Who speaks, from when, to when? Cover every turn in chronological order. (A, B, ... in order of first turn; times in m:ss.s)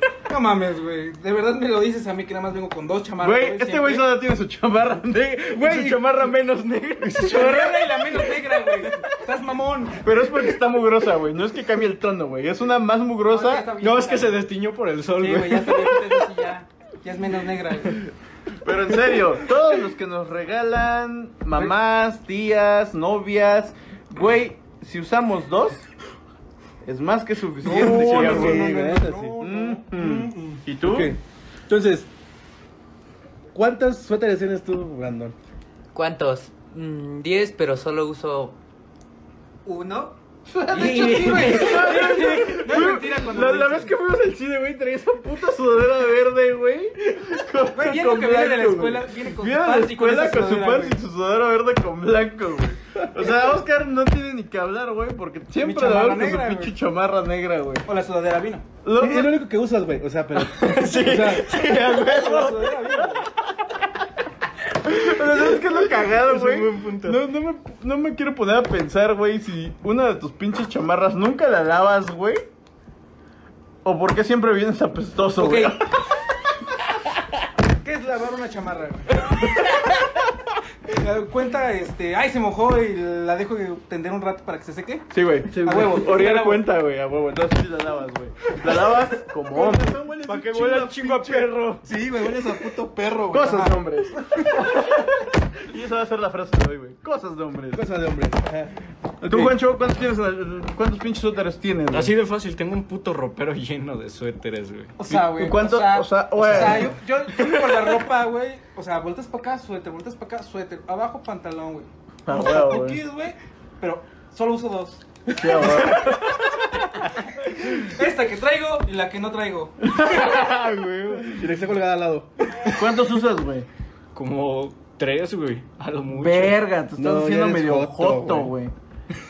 0:00.3-0:04.1 A
0:03.2-0:06.3 B
0:05.5-0:07.6 C
0:07.0-0:08.0 B
0:07.2-0:10.0 A
0:10.0-0:13.7 B
0:13.3-0:14.4 A
0:13.8-0:16.0 C
0:15.2-0:18.0 A
0:18.6-0:25.8 B
0:26.8-0:31.2 B
0:27.6-0:29.4 D
0:27.6-0:29.8 A
0:29.9-0:32.1 D
0:33.5-0:35.3 D
0:35.9-0:38.6 E
0:39.6-0:40.1 A
0:40.6-0:42.0 E
0:40.7-0:43.9 A
0:40.7-0:57.9 B
0:47.7-0:51.0 A
0:55.6-0:56.8 A
0:57.9-0:58.6 A
0:58.8-0:59.3 B
0:59.0-1:01.5 D
1:00.4-1:02.4 C
1:01.6-1:03.2 B
1:02.1-1:03.3 A
1:04.8-1:12.4 B
1:05.6-1:07.2 C
1:13.8-1:15.8 B
1:15.4-1:15.8 A
1:17.8-1:19.3 A
1:20.9-1:26.6 A
1:25.1-1:31.8 B
1:29.5-1:29.9 D
1:30.2-1:31.5 C
1:31.8-1:33.7 D
1:33.3-1:37.8 B
1:33.5-1:33.8 A
1:37.7-1:38.8 D
1:39.2-1:42.1 B
1:41.9-1:44.9 C
1:45.0-1:55.0 A
1:45.1-1:46.9 B
1:46.4-1:46.9 D
1:52.2-1:53.0 B
1:55.3-1:56.5 B
1:55.5-1:55.8 D
1:57.8-1:59.8 A
1:59.9-2:01.4 B
2:01.3-2:02.3 D
2:02.7-2:03.7 B
2:04.1-2:06.6 C
2:06.1-2:08.7 B
2:07.0-2:08.6 D